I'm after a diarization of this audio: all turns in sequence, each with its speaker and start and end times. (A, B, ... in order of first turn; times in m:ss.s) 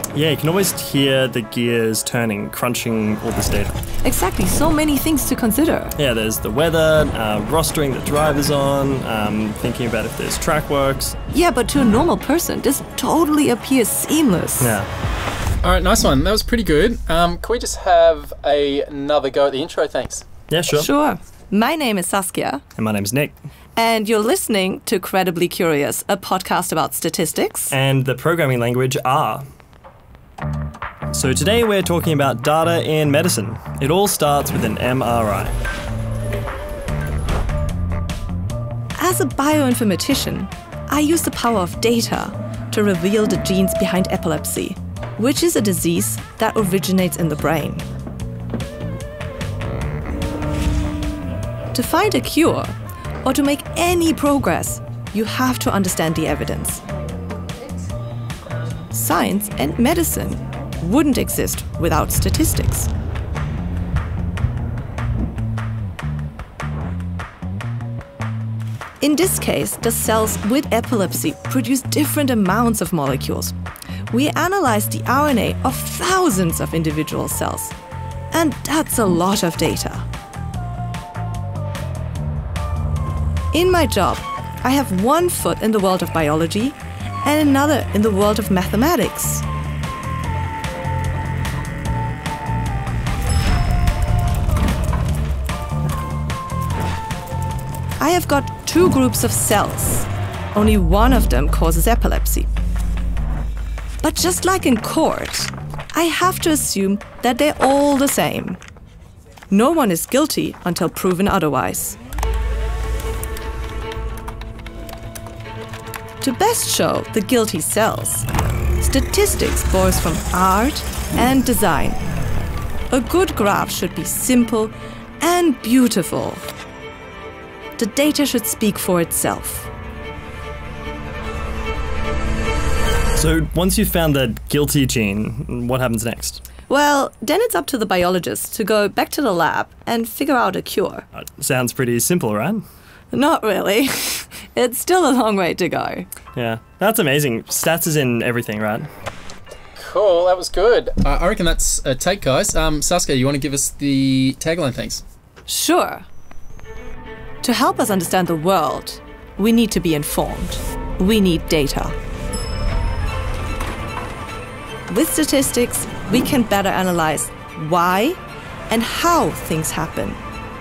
0:00.2-0:03.8 A
0:04.0-0:06.0 B
0:06.0-0:11.2 A
0:11.3-0:14.8 B
0:14.6-0:14.9 A
0:15.6-0:20.2 C
0:20.5-0:20.9 A
0:20.7-0:22.6 B
0:22.8-0:23.4 A
0:23.8-0:27.8 B
0:27.7-0:29.5 A
0:31.1-0:35.6 A
0:39.0-0:47.9 B
0:51.7-0:56.8 B
0:58.8-1:02.9 B
1:09.0-1:13.5 B
1:14.1-1:17.8 B
1:18.3-1:20.0 B
1:23.5-1:29.4 B
1:38.0-1:42.5 B
1:44.0-1:48.6 B
1:49.5-1:52.0 B
1:56.2-1:58.3 B
1:58.8-2:02.0 B
2:02.9-2:06.4 B
2:07.8-2:09.7 B
2:13.2-2:16.4 A
2:16.7-2:21.1 B
2:21.2-2:22.6 A
2:23.1-2:26.1 B
2:26.4-2:28.9 A
2:29.8-2:35.0 C
2:35.5-2:36.1 B
2:37.4-2:42.0 B
2:44.9-2:50.2 B